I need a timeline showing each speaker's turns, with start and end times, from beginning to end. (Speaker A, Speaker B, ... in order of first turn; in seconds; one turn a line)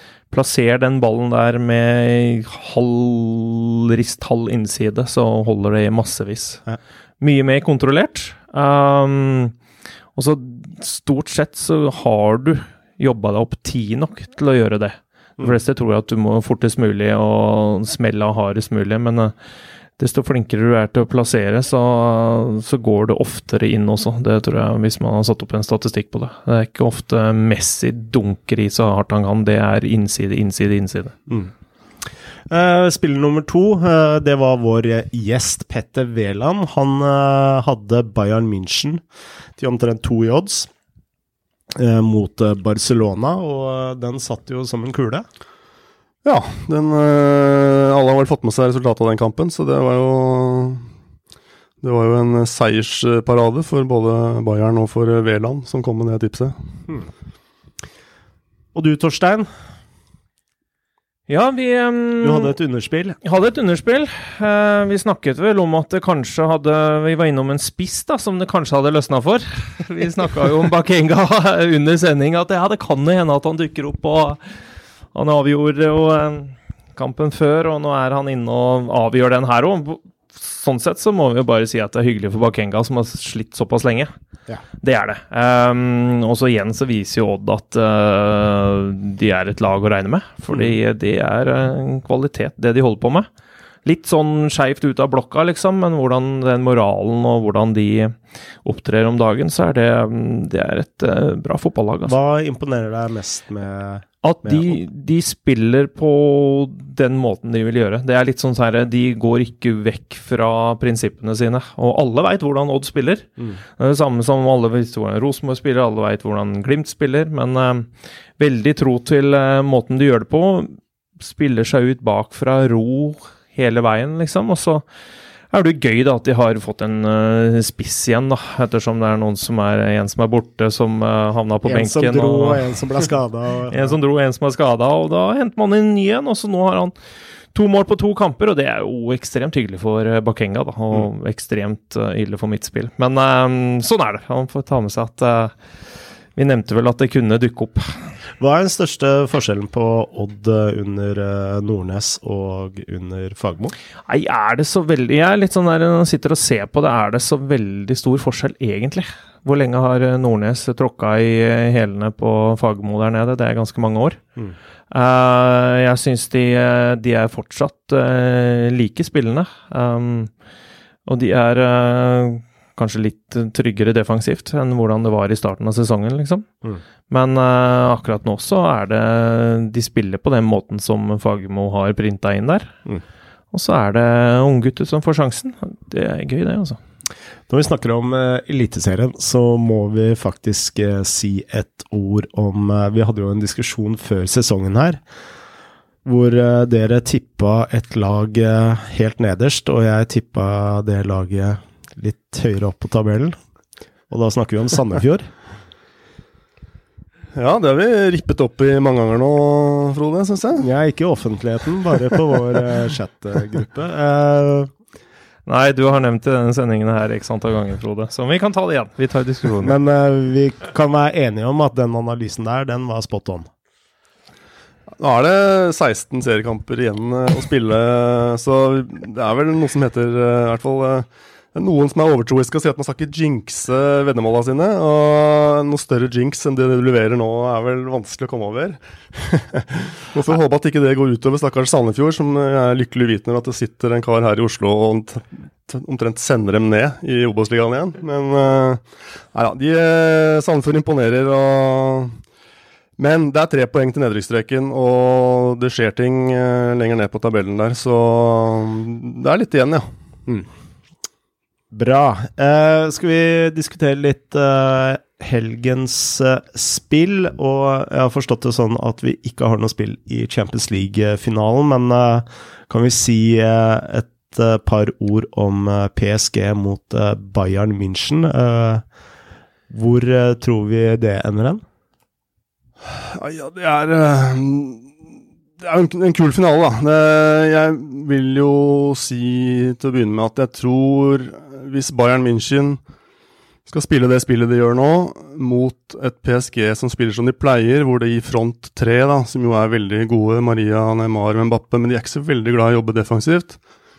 Speaker A: 0.3-6.6
Speaker A: 7.2-9.5
Speaker A: 10.1-19.3
Speaker A: 20.0-31.1
Speaker B: 32.5-39.0
Speaker B: 39.6-40.7
Speaker B: 41.7-45.2
Speaker C: 46.2-50.9
Speaker C: 51.8-56.5
Speaker B: 58.7-59.5
Speaker A: 61.3-62.5
Speaker B: 62.2-63.1
Speaker A: 63.2-74.4
Speaker A: 75.1-84.1
Speaker A: 84.8-93.3
Speaker A: 93.8-102.2
Speaker B: 102.0-104.8
Speaker A: 104.2-124.8
Speaker A: 125.5-132.7
Speaker B: 131.6-134.0
Speaker A: 133.7-136.9
Speaker A: 137.5-145.5
Speaker A: 146.3-147.9
Speaker B: 148.4-153.7
Speaker A: 154.1-164.2
Speaker A: 164.9-170.3
Speaker A: 171.1-176.5
Speaker A: 177.1-182.7
Speaker A: 183.5-186.8
Speaker B: 187.5-195.0
Speaker B: 196.0-203.3
Speaker B: 204.1-205.3
Speaker C: 207.3-210.7
Speaker B: 210.6-214.7
Speaker A: 215.4-219.7
Speaker B: 219.6-223.5
Speaker C: 225.0-248.8
Speaker C: 249.3-252.2
Speaker C: 253.0-259.9
Speaker B: 261.7-278.8
Speaker B: 279.7-281.6
Speaker C: 282.9-284.9
Speaker C: 285.6-292.8
Speaker C: 293.7-303.6